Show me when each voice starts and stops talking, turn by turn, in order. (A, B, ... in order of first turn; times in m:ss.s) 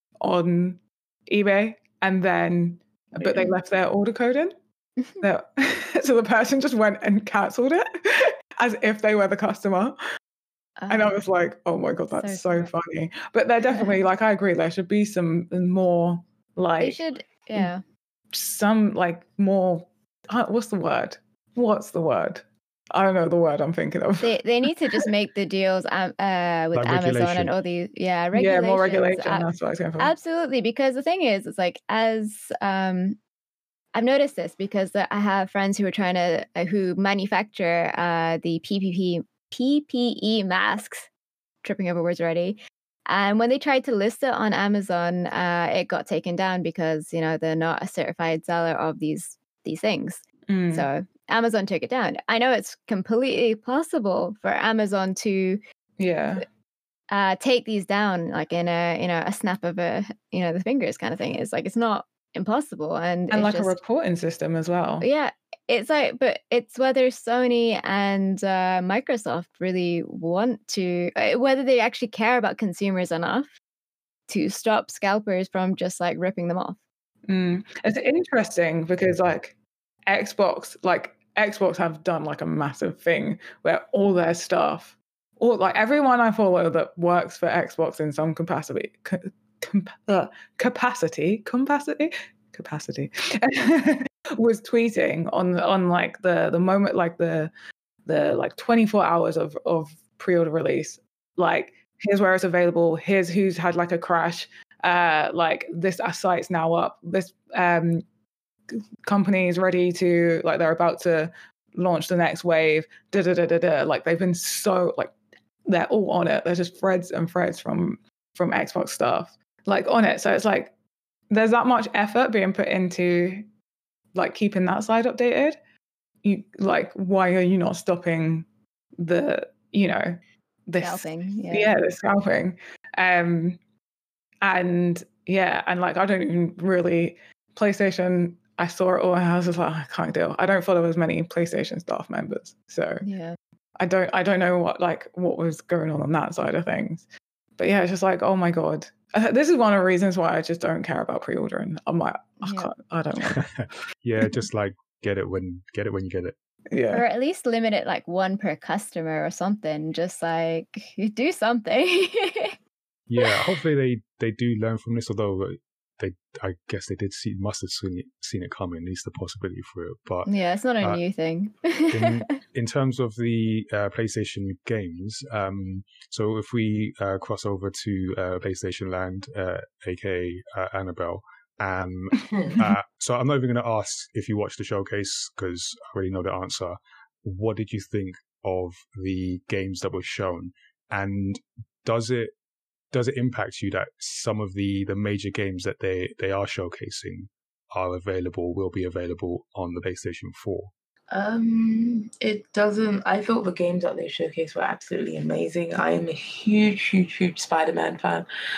0:00.2-0:04.5 A
0:03.2-0:03.5 B
0:05.0-0:05.2 B
0:05.2-0:10.0 A
0:10.8-0:11.2 B
0:10.9-0:17.0 A
0:12.2-0:12.7 B
0:16.8-0:17.8 B
0:18.3-0:24.3 A
0:24.2-0:33.2 B
0:26.7-0:27.6 C
0:28.3-0:30.1 A
0:33.9-0:41.1 B
0:41.6-0:55.6 B
0:50.5-0:50.9 A
0:56.0-0:56.4 A
0:57.1-1:03.8 B
1:03.3-1:05.1 A
1:05.0-1:13.6 B
1:14.3-1:16.8 B
1:17.3-1:19.6 A
1:20.1-1:37.5 A
1:38.1-1:48.0 A
1:49.0-1:55.2 A
1:55.7-2:00.7 A
2:01.3-2:03.4 A
2:04.2-2:05.6 A
2:06.2-2:08.5 A
2:09.0-2:13.6 A
2:10.8-2:11.7 B
2:14.4-2:23.0 A
2:23.0-2:23.4 B
2:23.8-2:27.1 A
2:27.6-2:33.4 A
2:32.4-2:32.7 B
2:33.2-2:36.4 C
2:36.7-2:37.0 A
2:36.9-2:42.6 B
2:43.1-2:51.0 C
2:50.3-2:52.4 B
2:51.9-3:12.3 C
3:12.9-3:20.7 C
3:21.1-3:28.3 D